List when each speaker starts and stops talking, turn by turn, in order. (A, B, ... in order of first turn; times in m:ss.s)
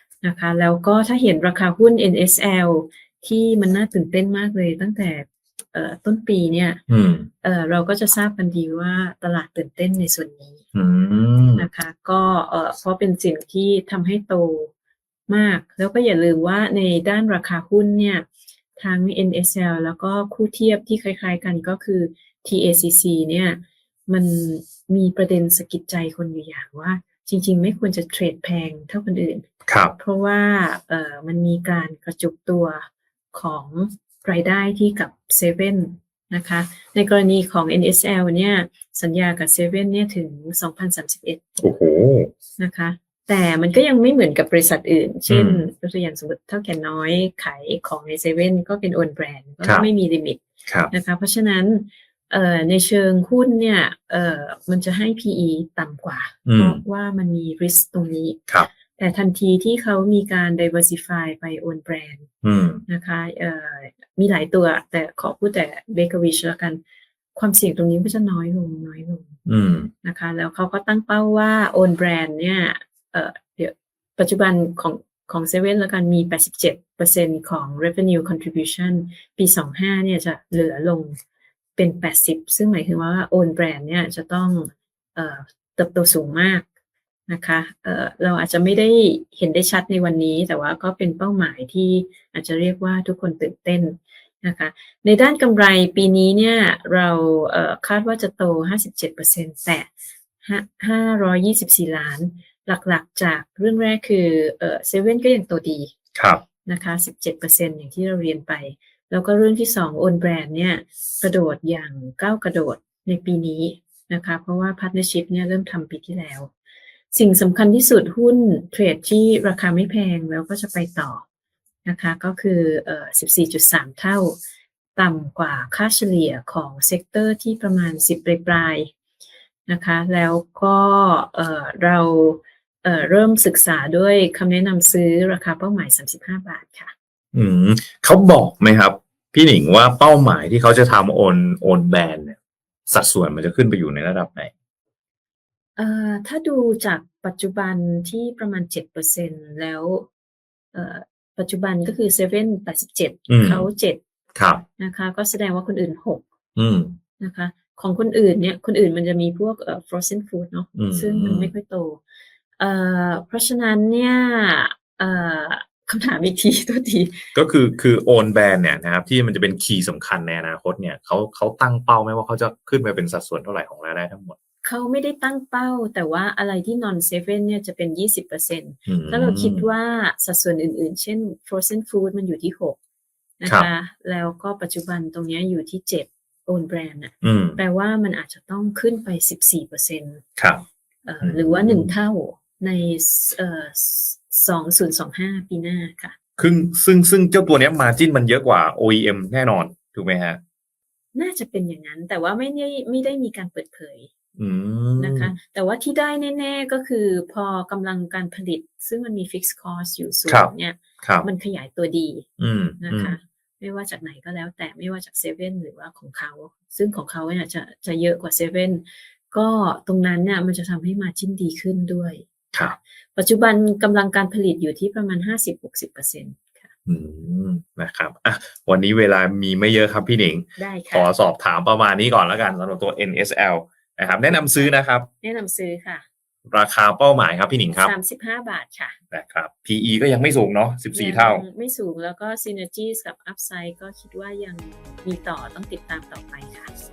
0:00.2-0:06.8 A
0:06.9-0:07.3 B
0:07.4-0:10.6 A
0:10.8-0:11.7 B
0:11.6-0:14.7 A
0:15.3-0:41.4 A
0:29.7-0:30.0 B
0:41.6-0:42.3 B
0:42.6-0:50.4 A
0:45.3-0:45.6 B
0:49.6-0:49.9 B
0:50.9-1:02.3 A
0:56.5-0:56.8 B
1:02.4-1:02.8 B
1:02.9-1:06.8 A
1:07.4-1:09.3 A
1:09.5-1:09.9 B
1:10.0-1:21.2 A
1:21.8-1:26.7 A
1:27.3-1:39.9 A
1:40.4-1:45.9 A
1:46.2-1:46.4 B
1:46.7-1:56.5 A
1:57.1-2:01.2 A
2:01.8-2:04.4 A
2:05.0-2:08.9 A
2:09.7-2:16.9 A
2:17.3-2:24.5 B
2:25.8-2:30.1 A
2:30.7-2:34.0 A
2:33.3-2:33.7 B
2:34.4-2:34.6 B
2:34.8-2:36.2 A
2:36.6-2:37.0 B
2:37.2-2:42.0 A
2:40.8-2:41.5 B
2:42.6-2:47.3 A
2:47.3-2:54.4 B
2:54.6-3:02.8 A
2:58.9-2:59.7 B
3:03.4-3:10.2 A
3:07.2-3:07.6 B
3:10.4-3:10.6 B
3:11.1-3:16.2 A
3:11.2-3:11.9 B
3:16.4-3:20.4 B
3:21.2-3:24.1 A
3:24.4-3:25.4 B
3:25.0-3:32.3 A
3:31.0-3:31.3 B
3:32.4-3:33.2 B
3:32.8-3:46.7 A
3:46.9-3:55.1 B
3:50.6-3:51.1 A
3:54.6-3:56.0 A
3:56.5-3:57.9 B
3:57.8-3:59.0 A
3:59.1-4:01.4 B
4:00.9-4:06.7 A